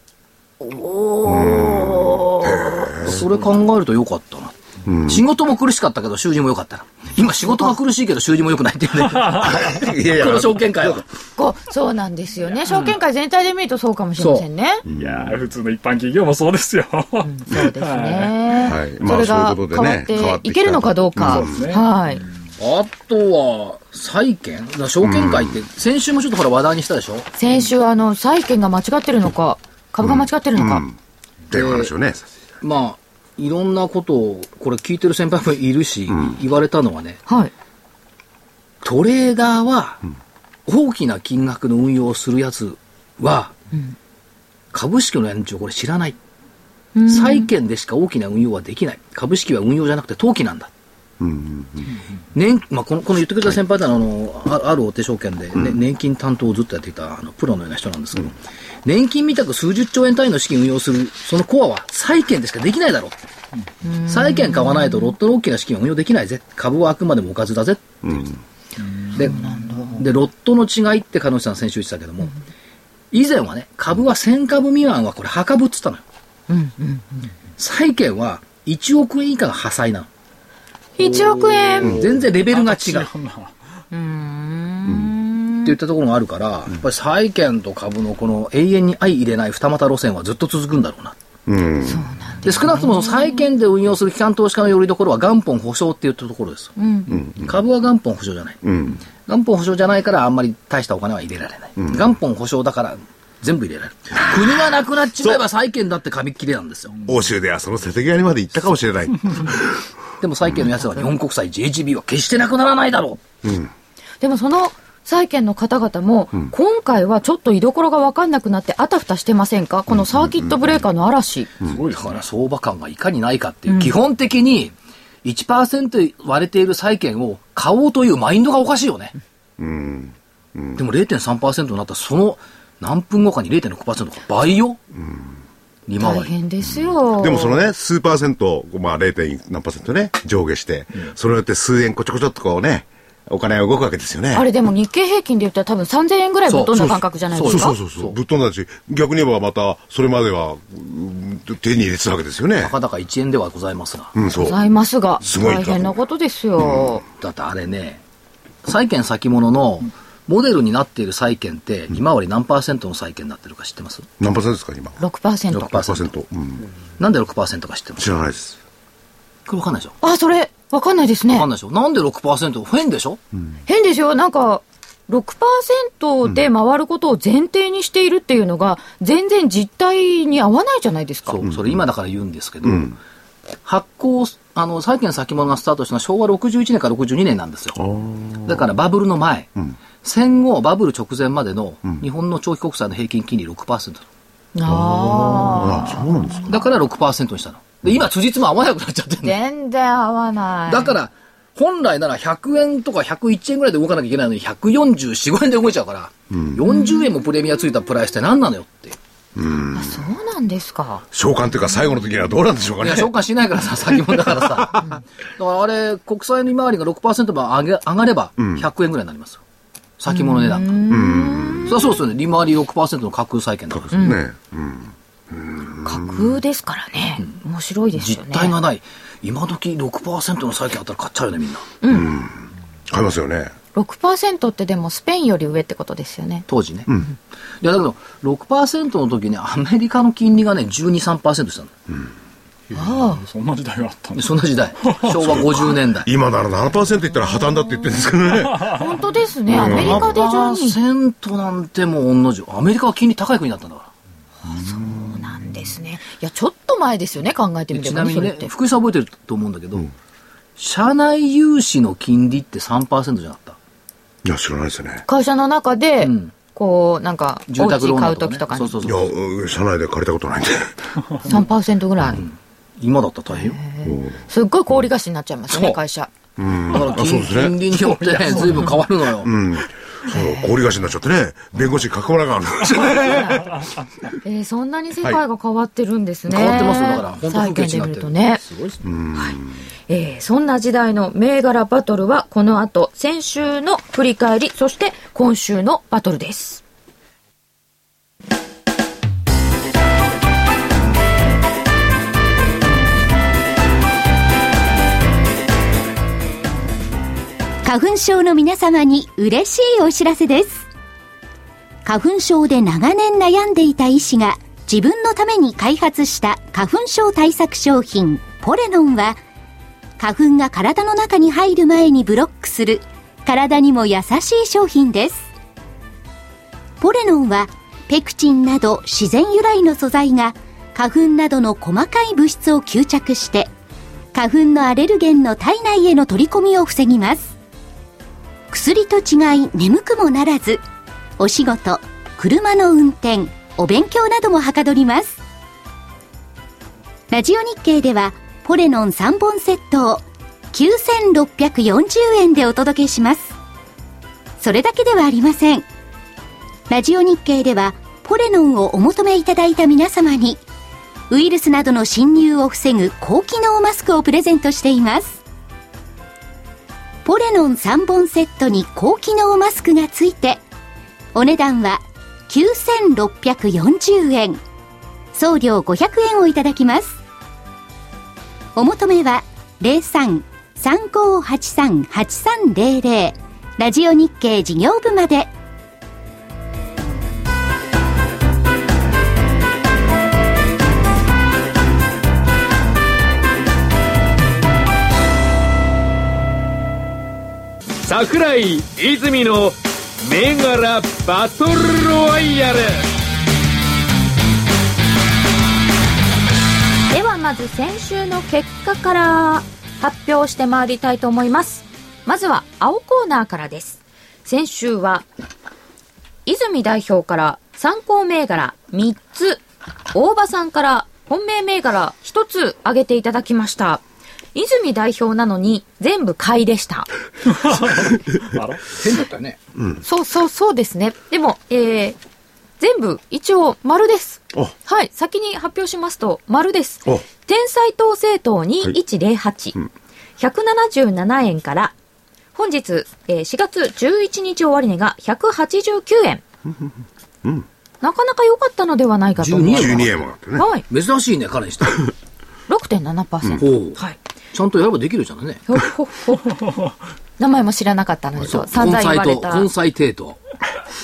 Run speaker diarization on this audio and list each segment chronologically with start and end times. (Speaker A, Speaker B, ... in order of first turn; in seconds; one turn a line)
Speaker A: 0.6-3.0
Speaker B: 1.2-3.3
Speaker C: 3.0-11.1
Speaker B: 4.9-5.2
Speaker A: 7.5-7.8
Speaker D: 9.0-9.6
Speaker B: 9.4-11.0
Speaker A: 11.4-14.8
Speaker C: 14.2-14.5
Speaker B: 14.9-15.4
Speaker D: 15.0-18.4
Speaker A: 17.2-22.2
Speaker B: 18.6-21.6
Speaker D: 21.3-22.3
Speaker C: 22.6-27.3
Speaker B: 25.0-25.6
Speaker A: 27.4-30.9
Speaker B: 30.0-30.9
Speaker C: 31.5-31.9
Speaker B: 31.5-32.3
Speaker C: 32.6-37.2
Speaker A: 37.3-37.5
Speaker C: 38.8-40.0
Speaker C: 40.7-43.5
Speaker C: 44.7-46.2
Speaker A: 47.0-47.5
Speaker C: 47.1-50.7
Speaker B: 51.2-51.9
Speaker C: 52.3-63.1
Speaker A: 63.8-65.1
Speaker C: 64.1-68.0
Speaker B: 68.0-68.4
Speaker C: 69.2-72.3
Speaker A: 69.2-70.0
Speaker C: 73.1-76.0
Speaker A: 76.5-77.3
Speaker C: 77.6-80.1
Speaker A: 81.0-82.0
Speaker C: 81.8-83.1
Speaker D: 82.2-83.5
Speaker A: 83.9-85.8
Speaker B: 84.9-85.1
Speaker C: 85.7-91.2
Speaker B: 91.5-92.0
Speaker A: 91.8-93.5
Speaker C: 92.5-107.0
Speaker A: 96.8-97.1
Speaker B: 97.1-97.5
Speaker B: 98.6-99.0
Speaker B: 104.2-104.5
Speaker B: 107.0-109.9
Speaker C: 110.2-113.2
Speaker B: 113.4-113.7
Speaker A: 114.2-121.5
Speaker B: 120.1-120.7
Speaker D: 121.6-122.2
Speaker C: 121.9-129.2
Speaker A: 123.7-124.0
Speaker B: 129.6-130.8
Speaker C: 130.8-134.8
Speaker B: 135.0-135.3
Speaker C: 135.9-136.3
Speaker A: 136.0-137.7
Speaker B: 136.7-144.5
Speaker A: 144.3-147.8
Speaker C: 146.5-148.2
Speaker B: 146.8-152.8
Speaker C: 152.6-154.2
Speaker B: 154.2-154.6
Speaker A: 154.3-157.0
Speaker B: 155.2-156.0
Speaker C: 157.2-158.0
Speaker C: 158.6-164.1
Speaker B: 164.2-165.0
Speaker A: 165.0-165.8
Speaker C: 165.5-166.1
Speaker B: 165.6-166.6
Speaker C: 167.0-168.1
Speaker B: 168.0-168.6
Speaker C: 169.5-170.0
Speaker A: 170.0-171.5
Speaker C: 171.3-173.2
Speaker A: 173.7-181.4
Speaker C: 181.3-183.0
Speaker B: 181.4-181.8
Speaker B: 182.6-182.9
Speaker C: 183.7-187.8
Speaker B: 187.8-188.7
Speaker C: 188.4-194.1
Speaker A: 194.6-196.5
Speaker B: 194.7-196.7
Speaker C: 196.5-199.4
Speaker A: 199.2-201.0
Speaker C: 200.7-209.0
Speaker B: 206.3-206.6
Speaker A: 206.6-207.1
Speaker B: 209.4-210.0
Speaker A: 209.7-211.0
Speaker B: 211.1-213.1
Speaker C: 212.8-219.4
Speaker B: 218.4-218.7
Speaker C: 220.0-220.9
Speaker A: 220.1-221.9
Speaker B: 220.9-221.9
Speaker C: 221.7-224.0
Speaker B: 223.7-226.2
Speaker A: 223.9-224.2
Speaker A: 225.8-228.6
Speaker C: 228.0-231.7
Speaker A: 231.8-232.1
Speaker B: 231.9-233.6
Speaker A: 233.8-236.5
Speaker C: 236.5-236.9
Speaker C: 237.6-241.7
Speaker A: 242.7-243.2
Speaker D: 242.8-245.4
Speaker C: 244.2-246.1
Speaker B: 245.2-248.8
Speaker D: 248.3-248.8
Speaker A: 248.7-250.8
Speaker B: 249.5-250.2
Speaker C: 249.5-253.9
Speaker A: 254.4-258.5
Speaker C: 257.7-259.9
Speaker C: 260.6-263.6
Speaker B: 264.2-265.1
Speaker A: 265.1-268.8
Speaker C: 266.0-266.3
Speaker C: 267.5-269.1
Speaker B: 268.8-270.9
Speaker A: 271.3-272.2
Speaker C: 272.1-273.6
Speaker A: 273.3-276.1
Speaker B: 273.9-274.2
Speaker C: 275.5-275.8
Speaker B: 276.4-277.6
Speaker C: 276.7-279.3
Speaker D: 277.7-278.7
Speaker B: 279.2-283.6
Speaker A: 280.1-280.6
Speaker A: 282.8-283.5
Speaker A: 284.2-288.4
Speaker C: 286.3-288.9
Speaker B: 288.8-289.5
Speaker A: 289.9-296.6
Speaker E: 307.6-310.7
Speaker E: 311.9-319.2
Speaker E: 320.0-325.3
Speaker E: 326.8-333.5
Speaker E: 334.1-337.3
Speaker E: 338.5-340.6
Speaker E: 341.2-345.2
Speaker E: 347.1-353.3
Speaker E: 354.4-355.7
Speaker E: 356.7-360.4
Speaker E: 361.1-365.2
Speaker E: 367.1-370.4
Speaker E: 371.1-374.4
Speaker E: 375.1-377.0
Speaker E: 378.6-385.3
Speaker F: 397.8-402.9
Speaker A: 406.9-415.1
Speaker A: 416.3-419.4
Speaker A: 419.9-423.8
Speaker A: 424.3-426.9
Speaker D: 427.3-428.6
Speaker C: 428.7-429.4
Speaker B: 429.6-429.8
Speaker A: 429.8-432.0
Speaker A: 432.6-439.6
Speaker A: 440.2-441.7
Speaker A: 442.4-446.2
Speaker A: 447.8-449.8
Speaker C: 449.2-450.0
Speaker B: 449.5-450.5
Speaker A: 450.4-450.6
Speaker C: 450.7-451.9
Speaker A: 452.5-454.0
Speaker C: 453.4-453.8
Speaker C: 454.3-455.4
Speaker A: 455.5-456.4
Speaker A: 457.2-459.5
Speaker C: 458.3-460.2